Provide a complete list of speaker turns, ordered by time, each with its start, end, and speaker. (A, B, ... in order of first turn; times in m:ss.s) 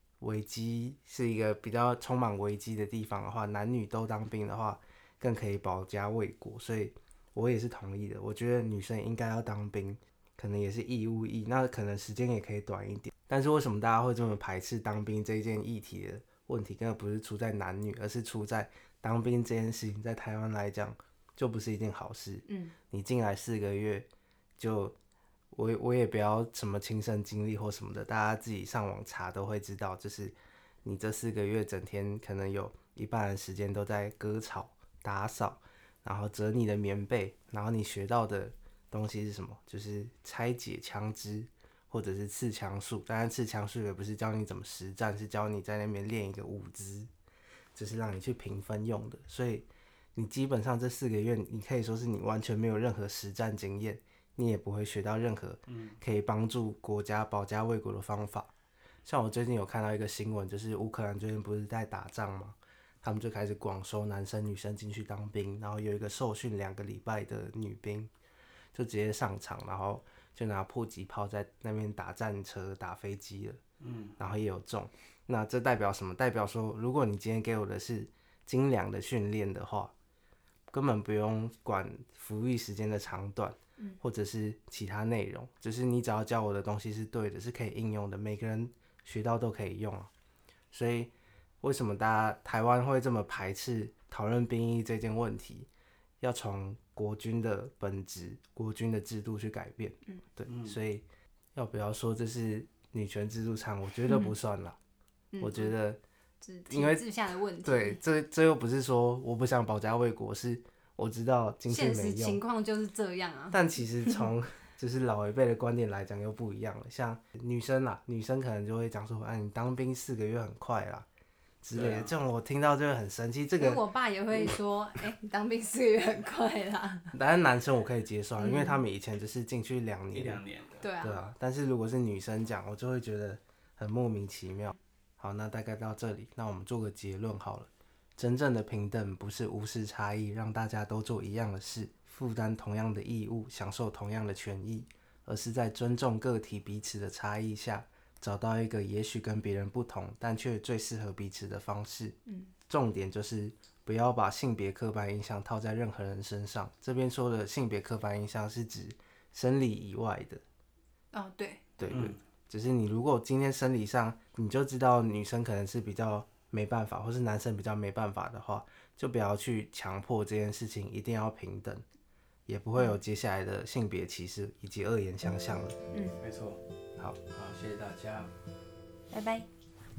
0:00.2-0:24.1 A
0:22.5-0:22.8 B
0:24.6-0:25.0 A
0:25.5-0:47.1 A
0:47.8-0:58.5 A
0:55.7-0:56.0 C
0:59.0-1:08.1 A
1:08.7-1:13.6 A
1:13.8-1:14.2 C
1:14.2-1:19.9 A
1:20.7-1:30.1 A
1:30.7-1:35.7 A
1:36.2-1:44.8 A
1:40.5-1:40.8 C
1:45.3-1:45.8 B
1:45.4-1:46.0 A
1:46.4-1:48.0 B
1:46.7-1:47.0 A
1:47.6-1:52.4 A
1:51.7-1:54.2 B
1:53.5-2:01.1 A
2:01.6-2:03.8 A
2:01.7-2:02.2 C
2:03.6-2:07.2 B
2:07.1-2:10.4 A
2:08.4-2:08.8 B
2:10.1-2:10.8 C
2:10.8-2:11.2 B
2:11.0-2:32.2 A
2:32.3-2:32.5 B
2:32.7-2:40.4 A
2:41.1-2:41.6 B
2:41.8-2:51.8 A
2:41.9-2:42.2 C
2:52.5-2:55.8 A
2:55.9-2:56.2 B
2:56.2-2:56.6 C
2:57.3-2:58.3 C
2:59.1-2:59.5 B